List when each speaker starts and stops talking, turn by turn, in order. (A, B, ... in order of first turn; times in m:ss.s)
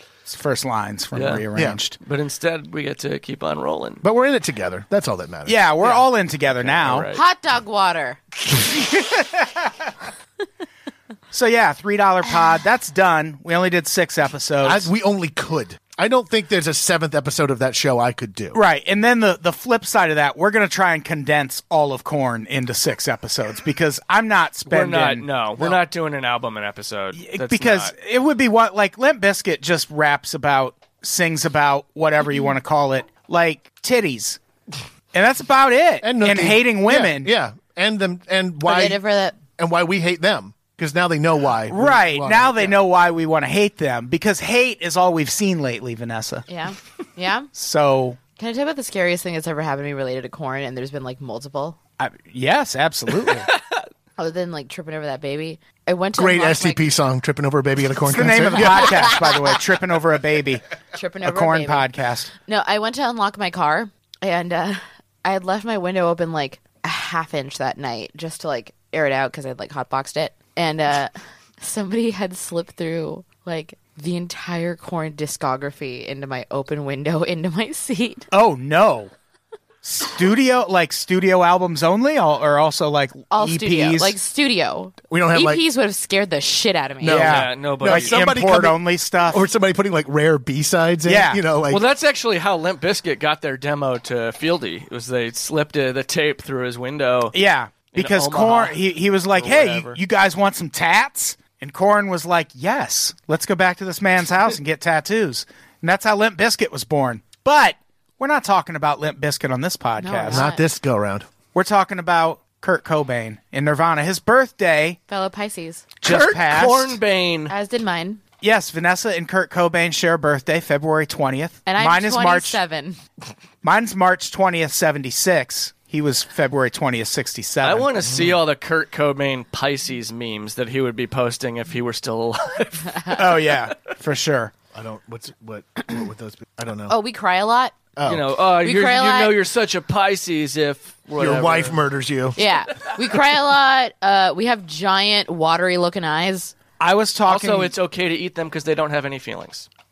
0:00.2-0:02.0 A
0:01.1-0:01.4 B
0:01.5-0:01.8 C
0:02.0-0:04.0 B
0:04.0-0:06.0 C
0:05.4-0:07.1 A
0:05.8-0:07.2 B
0:07.1-0:08.2 D
0:11.3-0:14.9 A
0:14.6-0:18.6 C
0:18.5-0:25.3 A
0:24.7-0:27.9 B
0:27.2-0:34.4 A
0:35.1-0:37.3 A
0:36.0-0:39.0 C
0:38.6-0:39.4 D
0:39.6-0:42.8 C
0:41.7-0:46.4 A
0:46.5-0:47.5 D
0:47.5-0:48.2 A
0:48.4-0:51.8 D
0:52.0-0:53.5 A
0:54.2-0:56.9 D
0:56.1-0:59.2 C
0:58.1-1:00.6 A
1:00.9-1:01.9 D
1:01.2-1:02.3 A
1:02.4-1:18.2 D
1:18.3-1:19.1 A
1:19.8-1:24.1 A
1:23.3-1:27.2 D
1:25.1-1:25.6 C
1:27.0-1:31.8 C
1:27.0-1:29.4 A
1:27.1-1:28.2 B
1:31.0-1:31.4 A
1:31.7-1:37.3 B
1:37.3-1:50.4 A
1:37.9-1:40.0 B
1:50.0-1:50.6 D
1:50.3-1:51.3 C
1:51.5-1:55.0 A
1:55.1-1:55.8 D
1:56.0-1:57.0 A
1:56.0-1:57.5 B
1:57.5-1:58.2 D
1:58.4-2:02.6 A
2:01.6-2:03.0 D
2:03.6-2:07.9 A
2:07.6-2:13.7 B
2:08.0-2:08.4 C
2:13.1-2:14.5 A
2:14.7-2:17.0 C
2:16.9-2:17.8 D
2:18.0-2:18.3 C
2:18.1-2:21.8 B
2:18.6-2:19.3 D
2:21.2-2:22.4 C
2:22.4-2:26.5 D
2:26.8-2:27.7 A
2:27.3-2:29.7 B